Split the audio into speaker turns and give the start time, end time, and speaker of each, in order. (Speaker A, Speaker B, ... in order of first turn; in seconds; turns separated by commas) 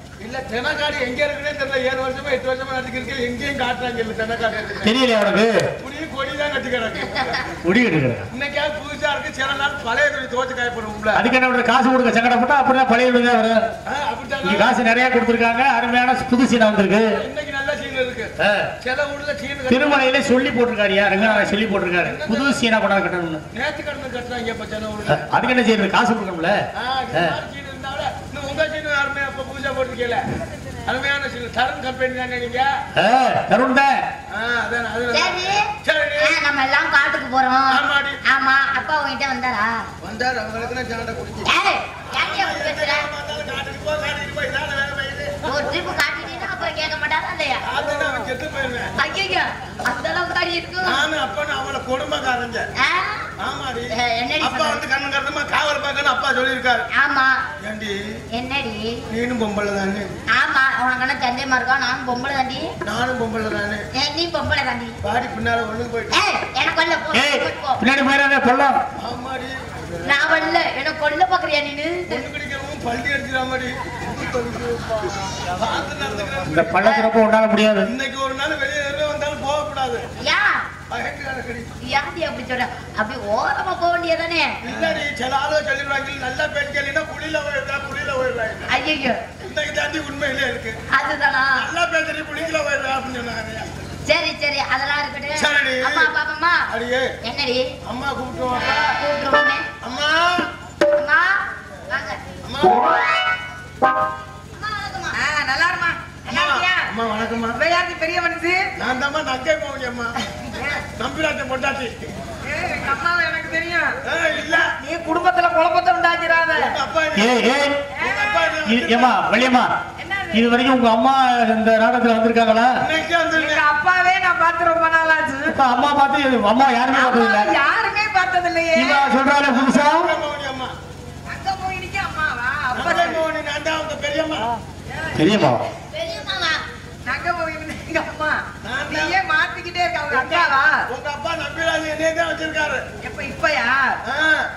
Speaker A: 0.2-5.0, Speaker B: 4.8-5.5, Speaker A: 5.8-7.5, Speaker B: 7.6-8.3, Speaker A: 8.3-11.2, Speaker B: 11.2-13.6, Speaker A: 13.9-14.9, Speaker B: 14.4-17.1, Speaker A: 17.2-20.1, Speaker B: 18.4-18.7, Speaker B: 19.7-23.4, Speaker A: 21.1-22.6, Speaker A: 23.5-25.3, Speaker B: 25.1-26.6, Speaker A: 26.8-30.3, Speaker A: 30.9-32.7, Speaker B: 33.0-33.9, Speaker A: 34.3-36.4, Speaker C: 35.1-39.9, Speaker A: 37.7-38.2, Speaker A: 40.0-41.5, Speaker C: 41.4-43.1, Speaker A: 42.2-45.3, Speaker C: 45.5-47.6, Speaker A: 47.6-48.9, Speaker C: 49.0-51.0, Speaker A: 50.8-52.6, Speaker C: 52.8-53.3, Speaker A: 53.4-56.9, Speaker C: 53.9-54.8, Speaker C: 57.0-57.4, Speaker A: 57.6-58.0, Speaker C: 58.3-59.0, Speaker A: 59.1-60.2, Speaker C: 60.3-62.7, Speaker A: 62.8-63.9, Speaker C: 64.0-65.0, Speaker A: 65.0-66.2, Speaker C: 66.1-67.8, Speaker B: 67.1-68.8, Speaker A: 69.0-69.6, Speaker C: 70.0-72.2, Speaker A: 72.1-73.8, Speaker A: 75.6-76.7, Speaker B: 76.5-77.9, Speaker C: 76.8-77.1, Speaker A: 77.8-80.0, Speaker C: 80.2-80.6, Speaker A: 80.9-81.7, Speaker C: 81.8-84.5, Speaker A: 84.6-88.7, Speaker C: 88.7-89.2, Speaker A: 89.4-90.8, Speaker C: 90.9-91.7, Speaker A: 91.6-93.8, Speaker C: 94.1-96.7, Speaker A: 95.3-96.1, Speaker A: 96.7-97.1, Speaker C: 97.2-97.7, Speaker A: 97.8-98.8, Speaker C: 98.7-99.7, Speaker A: 99.8-100.5, Speaker C: 100.9-102.2, Speaker A: 102.4-102.9, Speaker C: 104.6-105.2, Speaker D: 105.2-106.6, Speaker A: 106.3-107.6, Speaker C: 106.3-106.7, Speaker D: 107.6-108.6, Speaker A: 108.8-110.2, Speaker D: 110.4-110.8, Speaker A: 110.9-112.1, Speaker D: 112.5-114.0, Speaker A: 114.1-114.7, Speaker D: 114.8-116.8, Speaker A: 116.5-119.3, Speaker B: 117.2-117.9, Speaker D: 118.0-118.5, Speaker B: 118.6-119.7, Speaker D: 120.0-120.8, Speaker B: 120.3-122.8, Speaker A: 122.8-123.7, Speaker D: 123.3-125.6, Speaker B: 125.5-127.5, Speaker D: 126.9-129.1, Speaker B: 128.8-130.1, Speaker A: 129.5-130.7, Speaker D: 131.3-133.2, Speaker A: 132.7-134.5, Speaker B: 135.2-135.6, Speaker C: 135.9-136.6, Speaker D: 137.1-140.8, Speaker A: 138.6-139.2, Speaker A: 140.1-142.8, Speaker D: 143.0-144.0, Speaker A: 144.1-144.5